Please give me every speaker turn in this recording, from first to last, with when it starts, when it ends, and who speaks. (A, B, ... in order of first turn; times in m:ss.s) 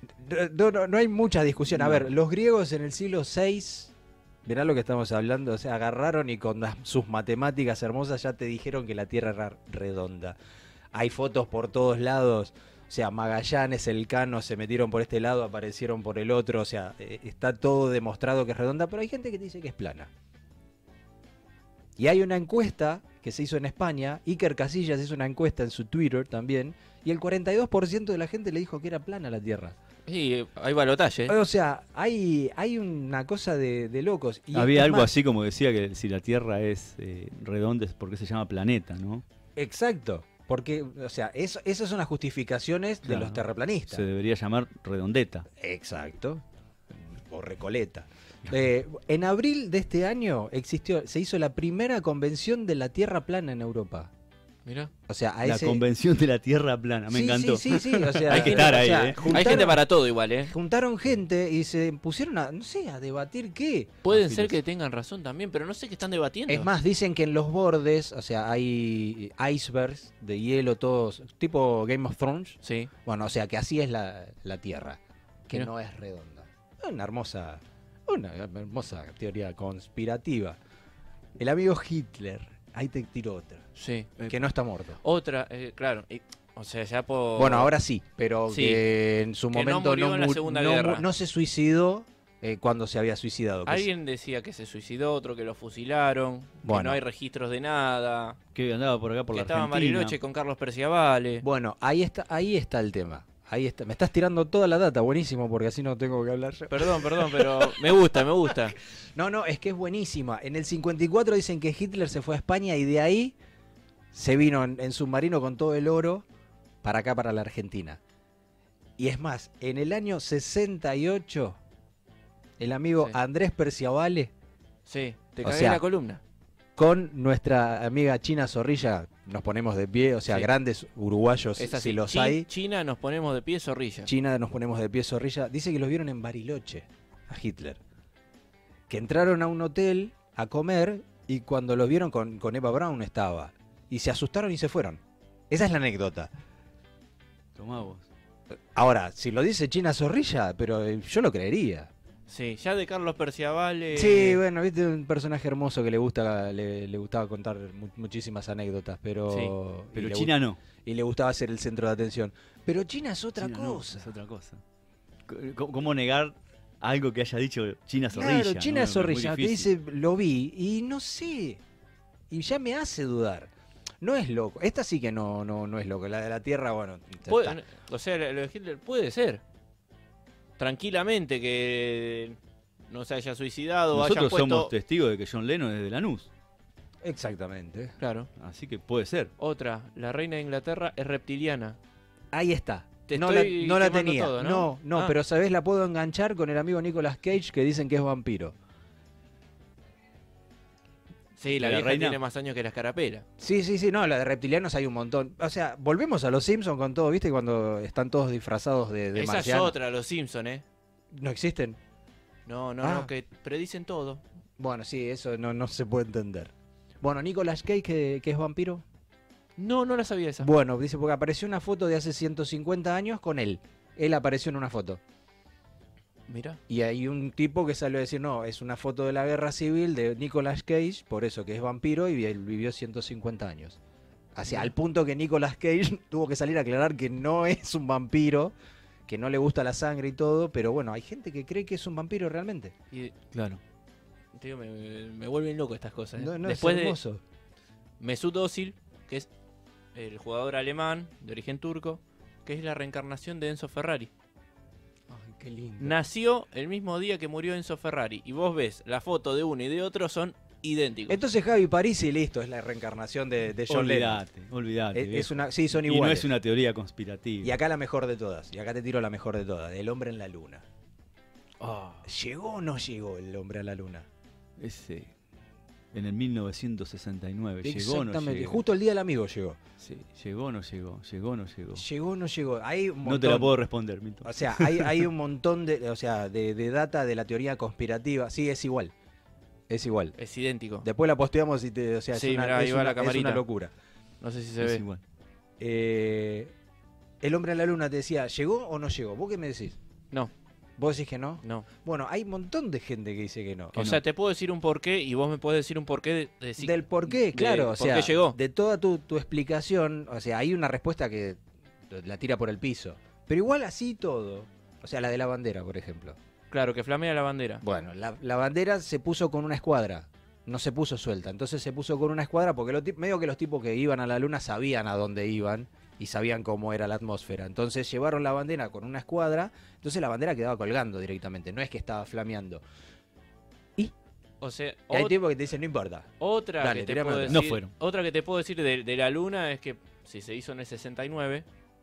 0:00.2-0:03.9 A
0:01.7-0:02.1 B
0:04.4-0:10.4 A
0:10.9-0:20.1 A
0:22.0-0:29.7 A
0:30.1-0:31.3 C
0:31.3-0:35.1 A
0:34.5-0:39.2 B
0:39.6-0:44.0 A
0:43.0-0:45.5 B
0:45.6-0:46.4 A
0:47.0-0:54.1 A
0:54.6-0:54.9 C
0:55.1-0:55.8 A
0:55.4-0:59.6 B
0:57.1-0:59.8 A
0:58.3-1:00.5 C
1:00.4-1:04.0 A
1:04.0-1:06.7 C
1:04.0-1:04.6 B
1:06.5-1:20.6 A
1:12.6-1:12.9 C
1:21.4-1:23.6 A
1:23.8-1:24.3 C
1:24.3-1:25.0 A
1:25.0-1:27.7 C
1:27.4-1:33.9 A
1:28.5-1:28.8 C
1:29.5-1:31.0 C
1:33.6-1:38.4 C
1:36.6-1:37.0 A
1:38.5-1:40.2 B
1:39.3-1:41.4 C
1:41.4-1:47.7 A
1:46.7-1:48.8 C
1:49.1-1:53.4 A
1:54.1-1:56.2 A
1:56.8-1:58.0 A
1:59.0-2:01.6 A
2:02.6-2:04.3 A
2:04.8-2:06.2 C
2:05.4-2:05.8 A
2:06.8-2:12.5 A
2:11.6-2:14.1 C
2:14.0-2:17.8 A
2:18.9-2:26.3 A
2:27.6-2:28.0 B
2:28.7-2:31.9 A
2:32.3-2:34.4 C
2:33.9-2:40.3 A
2:39.3-2:39.5 C
2:39.9-2:40.6 B
2:40.8-2:44.1 A
2:43.4-2:44.6 B
2:45.3-2:49.7 B
2:48.1-2:51.6 A
2:52.3-2:53.5 A
2:54.0-2:57.6 A
2:57.3-2:59.4 C
3:00.6-3:02.4 C
3:02.9-3:04.7 C
3:03.9-3:06.3 B
3:07.0-3:07.9 A
3:08.0-3:08.3 C
3:08.4-3:09.3 B
3:09.4-3:11.8 C
3:12.3-3:18.5 A
3:13.1-3:15.1 C
3:21.4-3:23.2 C
3:21.6-3:22.2 B
3:23.4-3:29.7 A
3:29.1-3:30.6 C
3:31.1-3:31.8 A
3:32.4-3:34.2 C
3:32.8-3:33.1 A
3:34.6-3:38.8 A
3:39.6-3:40.5 C
3:40.4-3:45.0 A
3:46.3-3:46.6 C
3:46.7-3:53.8 A
3:54.3-3:58.5 A
3:59.1-4:02.7 A
4:03.3-4:03.6 B
4:04.3-4:07.0 C
4:06.2-4:07.2 A
4:08.0-4:09.3 C
4:09.9-4:14.1 C
4:15.1-4:16.0 A
4:15.8-4:21.2 C
4:21.1-4:24.2 A
4:23.7-4:27.5 B
4:24.9-4:26.3 A
4:27.4-4:30.6 A
4:31.6-4:32.0 B
4:32.0-4:34.1 A
4:34.6-4:35.1 B
4:35.9-4:38.6 B
4:37.6-4:39.6 A
4:39.8-4:41.8 B
4:41.7-4:43.5 A
4:43.0-4:45.0 B
4:44.2-4:48.9 A
4:49.7-4:50.2 A
4:50.2-4:50.8 C
4:50.8-4:53.7 A
4:52.1-4:53.4 C
4:54.2-4:54.8 C
4:54.6-4:55.0 B
4:55.6-4:56.5 A
4:57.2-4:59.8 A
5:00.8-5:04.0 A
5:01.4-5:01.7 C
5:03.7-5:08.4 C
5:06.6-5:16.2 A
5:16.5-5:17.6 C
5:17.6-5:32.6 A
5:34.4-5:35.2 C
5:34.9-5:37.5 A
5:36.2-5:41.4 C
5:37.3-5:37.7 B